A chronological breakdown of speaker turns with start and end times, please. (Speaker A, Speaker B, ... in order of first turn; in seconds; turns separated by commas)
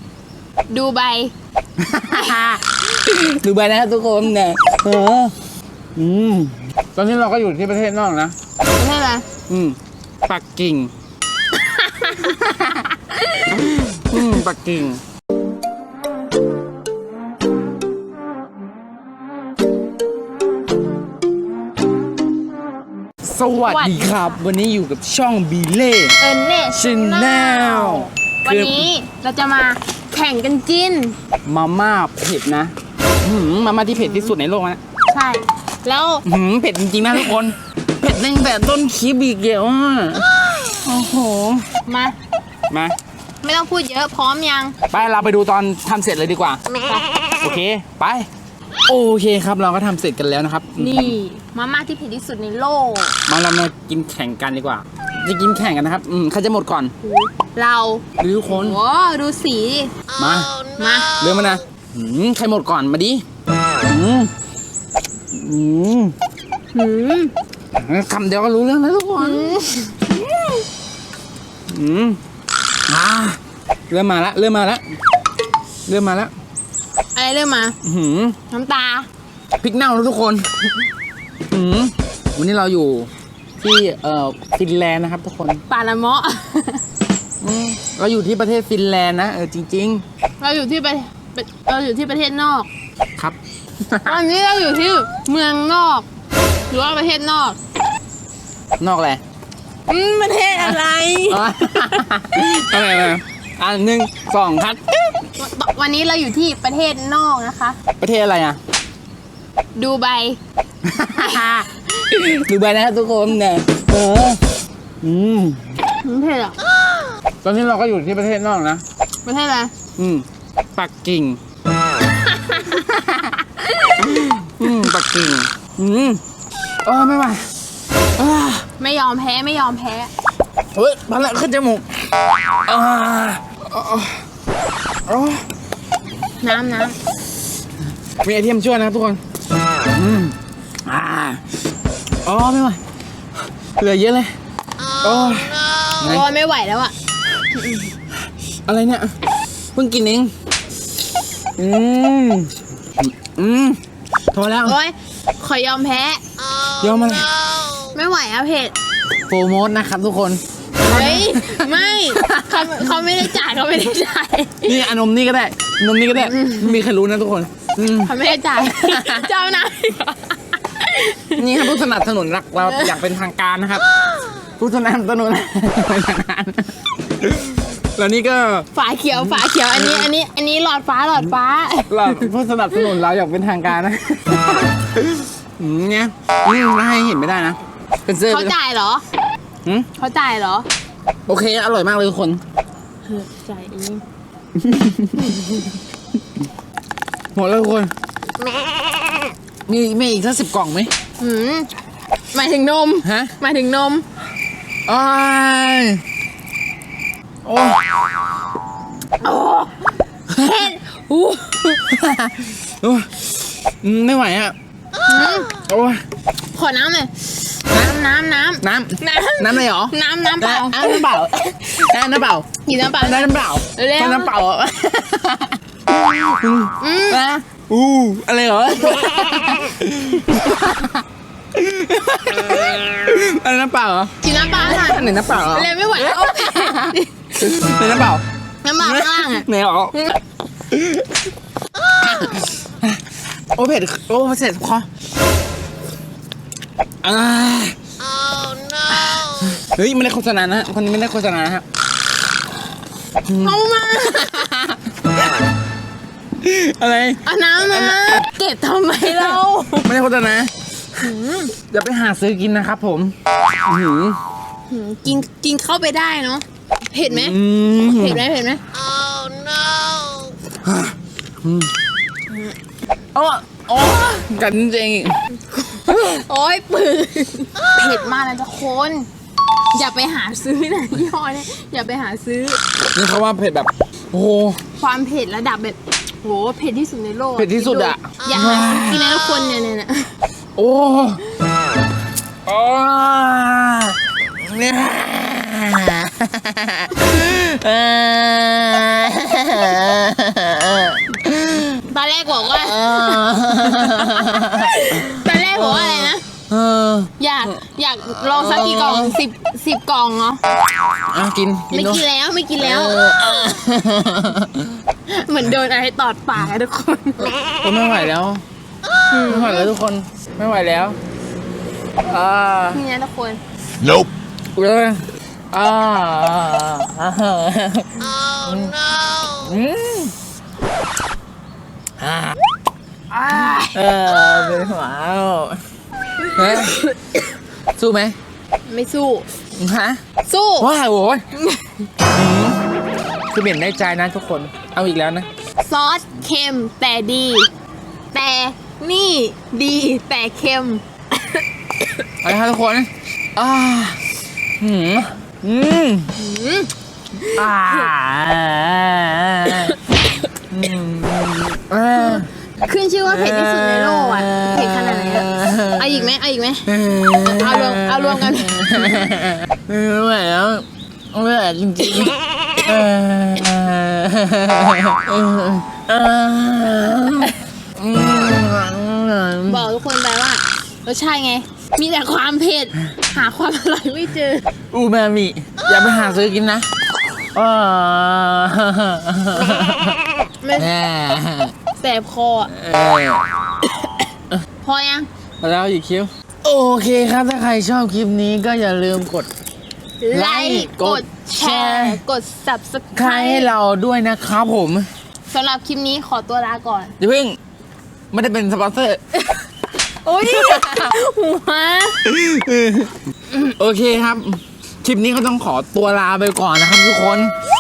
Speaker A: 0.7-1.3, Speaker B: 1.8-5.3, Speaker B: 6.0-8.3, Speaker A: 8.8-9.2, Speaker B: 9.5-10.9, Speaker A: 11.5-13.7, Speaker B: 12.4-12.8, Speaker B: 13.5-15.0, Speaker B: 23.2-26.2, Speaker A: 23.6-24.4, Speaker A: 26.2-31.2, Speaker B: 26.7-28.9, Speaker B: 31.4-34.8, Speaker A: 34.0-34.3, Speaker A: 35.1-36.2, Speaker B: 36.2-41.7, Speaker A: 41.9-42.2, Speaker B: 42.7-43.0, Speaker A: 43.4-44.8, Speaker B: 44.9-46.6, Speaker B: 47.4-48.3, Speaker B: 48.9-51.2, Speaker A: 50.8-53.2, Speaker B: 53.3-56.9, Speaker A: 57.0-59.9, Speaker B: 58.2-58.8, Speaker B: 60.2-60.5, Speaker A: 60.8-61.2, Speaker B: 61.2-63.2, Speaker B: 63.8-64.3, Speaker B: 65.3-66.2, Speaker A: 66.7-67.3, Speaker B: 67.8-69.6, Speaker A: 69.2-70.1, Speaker B: 71.7-72.2, Speaker B: 72.9-73.4, Speaker B: 73.9-74.8, Speaker B: 75.9-76.3, Speaker A: 77.2-77.8, Speaker B: 77.8-78.4, Speaker A: 78.5-79.1, Speaker B: 79.6-80.5, Speaker B: 81.5-85.6, Speaker A: 85.7-86.8, Speaker B: 87.4-90.0, Speaker A: 90.4-92.7, Speaker B: 93.2-94.2, Speaker A: 94.0-96.1, Speaker A: 96.7-97.6, Speaker B: 98.8-99.2, Speaker A: 99.9-102.5, Speaker B: 100.6-105.1, Speaker A: 105.4-107.8, Speaker B: 108.0-108.6, Speaker A: 109.8-110.4, Speaker B: 110.8-114.4, Speaker A: 111.1-111.8, Speaker B: 115.0-115.7, Speaker A: 116.0-116.6, Speaker B: 117.4-118.8, Speaker A: 119.2-119.7, Speaker B: 120.0-120.2, Speaker B: 120.8-121.4, Speaker A: 122.2-122.9, Speaker A: 123.5-124.2, Speaker B: 124.0-126.2, Speaker B: 126.8-127.5, Speaker B: 128.2-128.7, Speaker A: 128.8-130.1, Speaker B: 130.8-134.2, Speaker B: 135.1-135.4, Speaker A: 136.4-137.0, Speaker B: 138.2-139.2, Speaker B: 139.9-141.4, Speaker B: 142.2-142.8, Speaker B: 143.8-144.3, Speaker B: 145.0-146.3, Speaker A: 146.0-146.9, Speaker A: 147.6-147.9, Speaker B: 148.7-149.2, Speaker B: 149.8-150.3, Speaker B: 151.6-153.8, Speaker B: 154.3-154.8, Speaker A: 154.6-156.2, Speaker B: 156.8-157.3, Speaker A: 157.9-158.7, Speaker B: 159.3-162.9, Speaker A: 160.8-164.8, Speaker B: 164.6-168.1, Speaker A: 166.2-166.8, Speaker A: 168.0-171.8, Speaker B: 168.7-169.3, Speaker B: 171.3-173.9, Speaker A: 172.6-173.0, Speaker B: 174.6-180.1, Speaker A: 178.7-182.3, Speaker B: 181.9-188.6, Speaker A: 188.3-189.1, Speaker A: 190.0-190.7, Speaker B: 191.3-192.4, Speaker A: 193.1-194.0, Speaker B: 194.7-195.4, Speaker A: 195.2-195.6, Speaker B: 197.3-197.9, Speaker B: 199.7-200.9, Speaker A: 201.2-201.7, Speaker A: 202.3-204.1, Speaker B: 203.0-203.3, Speaker B: 204.9-206.0, Speaker B: 207.4-207.8, Speaker A: 209.2-211.9, Speaker B: 210.3-210.7, Speaker B: 211.9-214.6, Speaker A: 215.1-215.5, Speaker B: 215.7-216.0, Speaker A: 216.5-221.1, Speaker B: 218.6-231.0, Speaker A: 222.7-224.3, Speaker A: 226.8-227.2, Speaker B: 231.5-238.2, Speaker A: 234.2-237.3, Speaker A: 238.6-240.2, Speaker B: 238.8-239.9, Speaker B: 240.7-241.2, Speaker B: 242.0-243.0, Speaker B: 243.6-244.9, Speaker B: 247.0-247.8, Speaker A: 249.1-249.4, Speaker B: 249.4-251.7, Speaker B: 253.2-253.6, Speaker A: 253.3-254.8, Speaker B: 254.3-254.6, Speaker B: 256.4-258.3, Speaker A: 257.2-259.9, Speaker B: 259.0-261.1, Speaker A: 261.0-261.5, Speaker B: 261.7-264.2, Speaker A: 264.7-268.6, Speaker B: 267.1-268.2, Speaker B: 270.6-271.7, Speaker B: 273.1-275.2, Speaker A: 275.5-279.1, Speaker A: 279.7-282.6, Speaker B: 282.9-284.6, Speaker A: 284.8-290.1, Speaker B: 287.4-289.0, Speaker B: 290.6-291.2, Speaker B: 292.5-301.8, Speaker A: 301.9-306.2, Speaker B: 302.6-307.1, Speaker A: 307.2-310.4, Speaker B: 308.1-309.2, Speaker B: 311.1-312.0, Speaker A: 311.7-313.2, Speaker B: 312.6-314.7, Speaker A: 315.1-317.3, Speaker B: 317.6-318.4, Speaker A: 319.1-319.7, Speaker B: 319.2-321.0, Speaker B: 322.0-322.8, Speaker A: 322.7-323.4, Speaker B: 323.9-330.1, Speaker B: 332.0-332.4, Speaker A: 333.1-333.8, Speaker B: 333.4-335.6, Speaker A: 336.2-337.2, Speaker B: 336.3-336.9, Speaker B: 337.8-338.2, Speaker A: 338.7-339.3, Speaker B: 339.6-340.0, Speaker A: 340.2-340.7, Speaker B: 340.6-341.2, Speaker A: 341.4-341.9, Speaker B: 342.1-342.6, Speaker B: 343.3-345.3, Speaker A: 345.6-347.5, Speaker A: 348.1-351.4, Speaker B: 352.2-354.0, Speaker B: 354.6-356.1, Speaker A: 356.2-357.5, Speaker B: 357.3-359.8, Speaker A: 359.5-360.2, Speaker B: 360.5-362.3, Speaker A: 362.0-369.1, Speaker B: 363.1-366.1, Speaker B: 366.7-379.7, Speaker A: 379.5-384.5, Speaker B: 384.7-386.7, Speaker B: 387.3-390.0, Speaker A: 390.4-390.7, Speaker B: 390.6-391.5, Speaker A: 391.8-392.5, Speaker B: 392.5-393.3, Speaker A: 394.6-395.1, Speaker B: 395.4-399.3, Speaker A: 400.0-403.5, Speaker B: 400.1-402.0, Speaker B: 402.9-404.9, Speaker A: 405.3-406.9, Speaker B: 407.0-407.4, Speaker B: 408.1-409.0, Speaker A: 410.0-412.0, Speaker B: 410.2-410.9, Speaker B: 412.0-417.3